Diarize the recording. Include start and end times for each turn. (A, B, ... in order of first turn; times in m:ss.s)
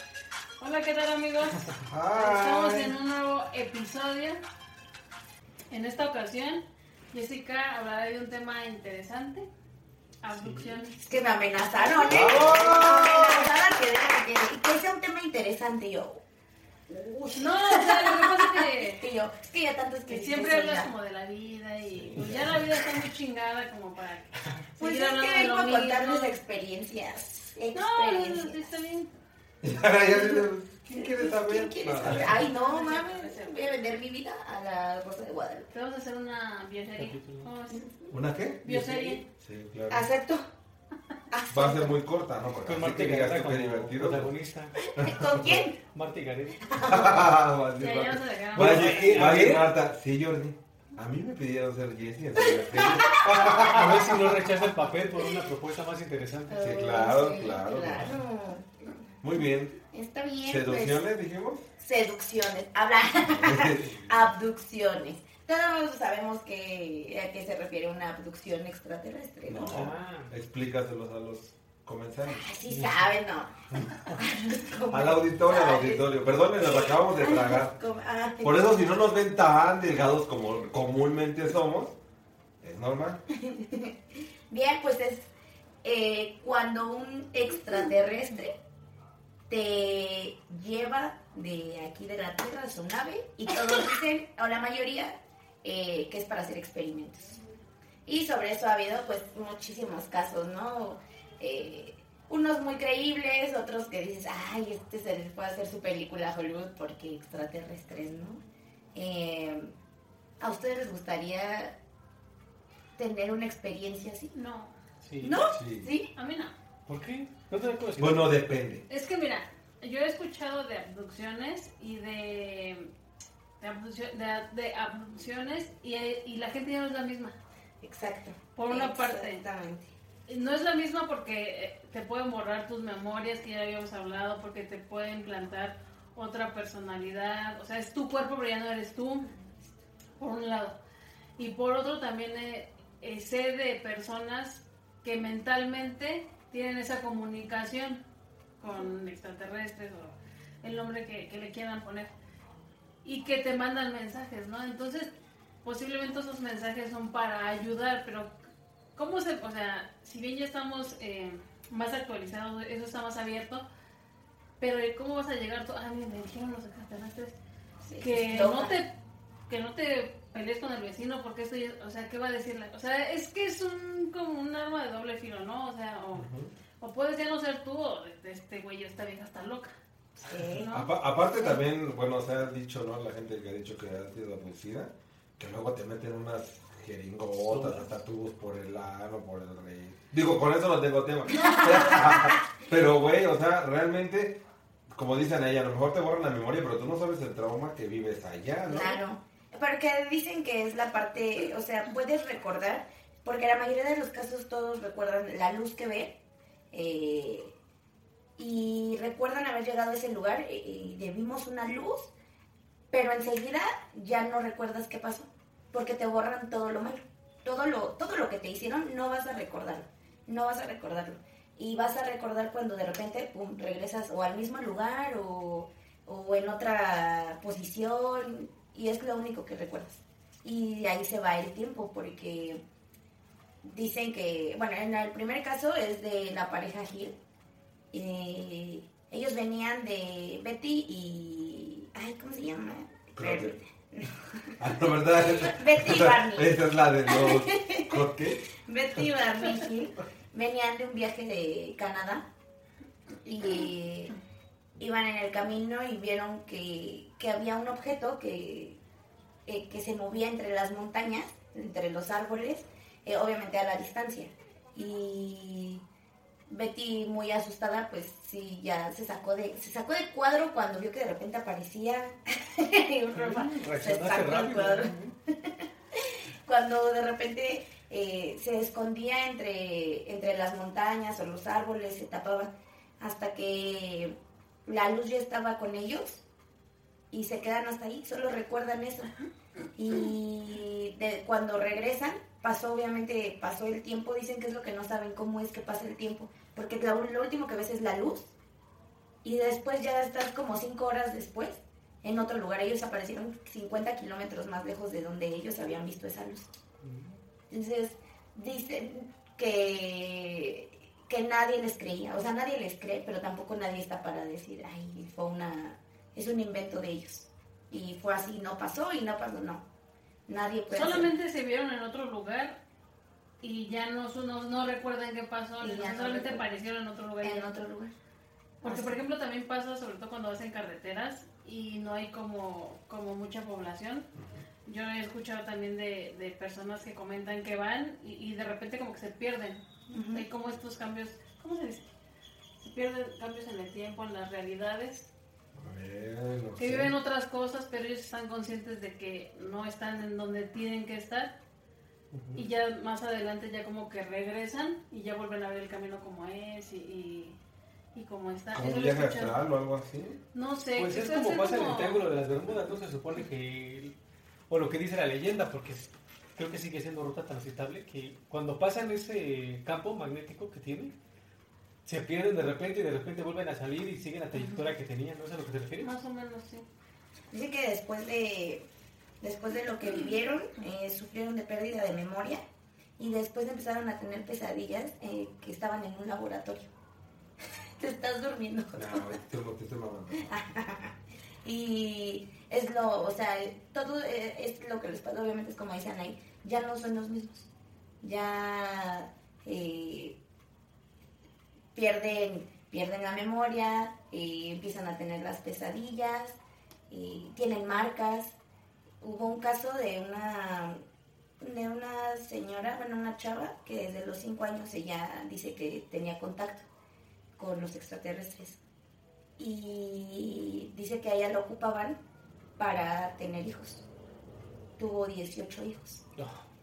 0:00.6-0:04.4 A
0:01.8-0:03.0 B
0:05.7-0:09.5 A
0:10.2-0:11.1 A
0:10.3-0:10.8 C
0:11.0-0:16.2 D
0:11.7-0:12.8 A
0:12.1-0:13.4 B
0:16.9-0:20.9 D
0:17.3-0:19.0 A
0:20.1-0:26.4 A
0:22.2-0:22.4 C
0:22.4-0:22.7 D
0:24.8-0:28.8 D
0:27.7-0:29.1 A
0:29.6-0:32.4 B
0:30.1-0:35.7 D
0:32.0-0:33.8 A
0:35.7-0:37.9 A
0:37.0-0:37.5 C
0:37.7-0:38.1 D
0:38.1-0:40.1 B
0:38.6-0:39.2 A
0:38.7-0:39.2 C
0:39.9-0:40.5 D
0:41.3-0:42.0 D
0:41.5-0:44.3 B
0:42.6-0:44.8 C
0:44.8-0:45.8 D
0:45.0-0:45.7 B
0:45.5-0:47.2 C
0:46.6-0:47.3 D
0:46.9-0:54.4 B
0:47.8-0:49.3 A
0:48.6-0:49.7 C
0:52.4-0:54.0 D
0:53.5-0:56.6 C
0:56.5-0:59.0 D
0:56.6-0:58.2 B
0:59.2-0:59.8 B
0:59.9-1:01.0 D
1:00.4-1:01.7 B
1:01.8-1:09.9 D
1:03.3-1:04.3 B
1:09.5-1:12.5 B
1:09.6-1:10.3 C
1:12.3-1:13.5 D
1:13.7-1:14.2 C
1:14.1-1:18.9 D
1:14.9-1:17.8 B
1:18.4-1:22.0 B
1:22.6-1:23.2 B
1:23.3-1:25.3 D
1:25.8-1:28.6 D
1:29.5-1:37.4 D
1:38.1-1:48.4 D
1:49.0-1:49.7 D
1:50.4-1:51.8 D
1:53.0-1:54.3 D
1:54.3-1:54.8 A
1:55.0-1:55.4 C
1:55.2-1:56.1 D
1:55.5-1:55.9 B
1:56.1-1:56.6 A
1:56.9-1:58.3 C
1:58.0-1:58.9 B
1:58.9-2:02.9 A
2:03.6-2:07.4 A
2:07.8-2:09.9 D
2:08.6-2:09.4 A
2:10.3-2:19.3 A
2:19.2-2:19.8 D
2:20.2-2:20.8 A
2:21.4-2:28.0 A
2:28.6-2:32.1 A
2:33.0-2:35.1 A
2:35.6-2:38.3 A
2:39.0-2:43.6 A
2:44.6-2:47.4 A
2:47.8-2:48.8 D
2:48.0-2:48.9 A
2:49.5-2:56.3 A
2:56.2-2:56.5 B
2:56.8-2:59.8 A
3:00.2-3:00.7 D
3:00.4-3:00.9 A
3:00.7-3:14.4 B
3:07.4-3:07.9 C
3:11.3-3:12.5 D
3:14.9-3:19.0 B
3:18.7-3:26.2 D
3:26.7-3:27.5 D
3:28.4-3:32.1 D
3:32.9-3:52.6 D
3:53.6-3:57.2 D
3:57.9-4:04.6 D
4:03.2-4:03.5 B
4:04.6-4:08.5 B
4:05.3-4:12.3 D
4:13.2-4:14.2 D
4:14.8-4:18.8 D
4:19.5-4:25.8 D
4:26.5-4:46.2 D
4:33.1-4:35.1 C
4:47.1-4:49.2 D
4:49.8-4:58.3 D
4:59.2-5:06.5 D
5:06.8-5:07.2 C
5:07.5-5:19.6 D
5:20.3-5:21.1 D
5:20.7-5:22.6 A
5:23.4-5:27.5 A
5:25.6-5:26.4 D
5:27.2-5:27.9 D
5:28.6-5:29.0 D
5:28.6-5:34.1 A
5:34.2-5:34.4 B
5:34.7-5:41.9 A
5:39.9-5:40.3 D
5:42.6-5:45.1 A
5:45.6-5:47.0 B
5:46.6-5:51.3 A
5:52.1-5:52.4 C
5:52.4-5:57.4 A
5:57.9-5:59.4 A
5:58.5-6:00.2 B
6:00.3-6:02.1 A
6:00.8-6:03.9 C
6:04.5-6:10.9 C
6:11.8-6:15.9 C
6:14.4-6:14.6 D
6:15.8-6:16.7 A
6:17.3-6:18.6 D
6:19.2-6:22.4 D
6:23.0-6:26.7 D
6:27.8-6:29.1 D
6:28.8-6:30.3 B
6:30.2-6:30.9 D
6:31.4-6:37.5 D
6:38.0-6:40.2 D
6:41.8-6:46.4 D
6:46.9-6:48.4 D
6:49.0-6:50.8 D
6:51.4-6:56.7 D
6:57.4-6:58.6 D
6:59.4-7:02.0 D
7:02.6-7:03.9 D
7:04.8-7:06.0 D
7:06.2-7:06.4 C